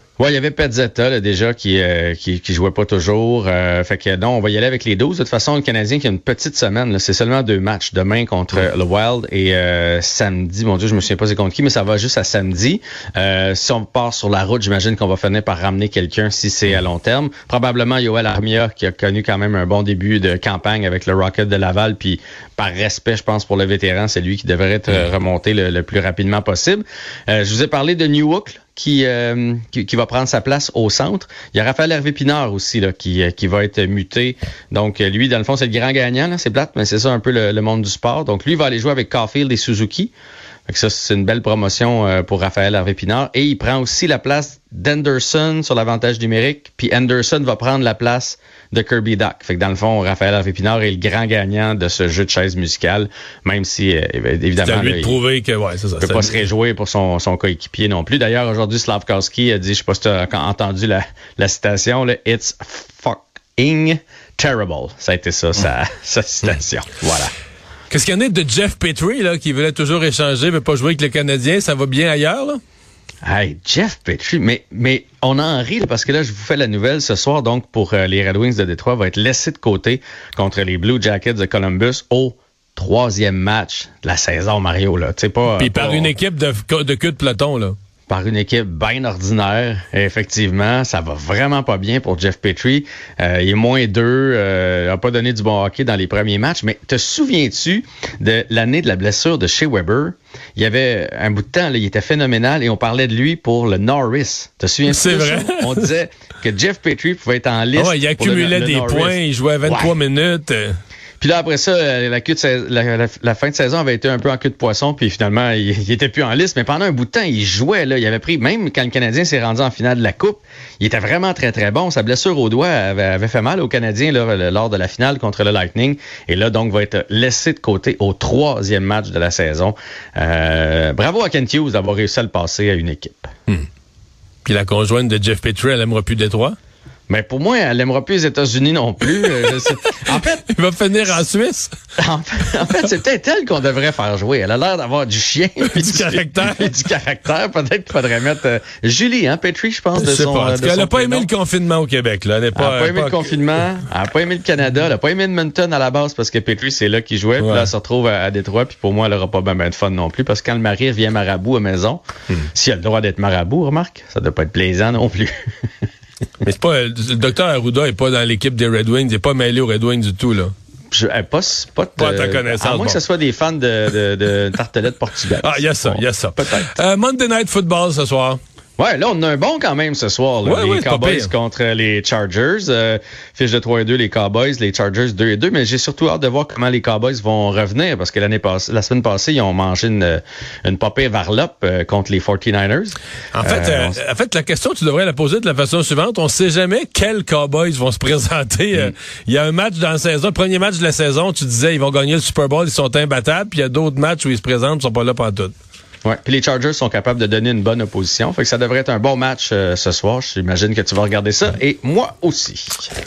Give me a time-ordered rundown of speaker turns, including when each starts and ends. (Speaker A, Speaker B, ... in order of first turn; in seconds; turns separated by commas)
Speaker A: 0.2-40.1, Speaker A: 40.7-55.2, Speaker B: 54.6-56.4, Speaker A: 56.0-67.3, Speaker B: 67.9-72.6, Speaker A: 73.2-86.1, Speaker B: 85.6-87.8, Speaker A: 88.1-109.9, Speaker B: 104.9-105.9, Speaker B: 107.8-110.8, Speaker A: 111.2-133.3, Speaker B: 134.4-136.6, Speaker A: 137.1-140.5, Speaker B: 140.1-141.7, Speaker A: 142.0-151.3, Speaker B: 145.6-146.7, Speaker B: 149.9-153.2, Speaker A: 152.6-165.3, Speaker B: 157.4-157.7, Speaker B: 166.4-170.5, Speaker A: 170.9-176.7, Speaker B: 172.0-173.0, Speaker B: 175.4-178.4, Speaker A: 178.8-194.0, Speaker B: 180.4-181.3, Speaker B: 193.3-205.5, Speaker A: 206.0-212.9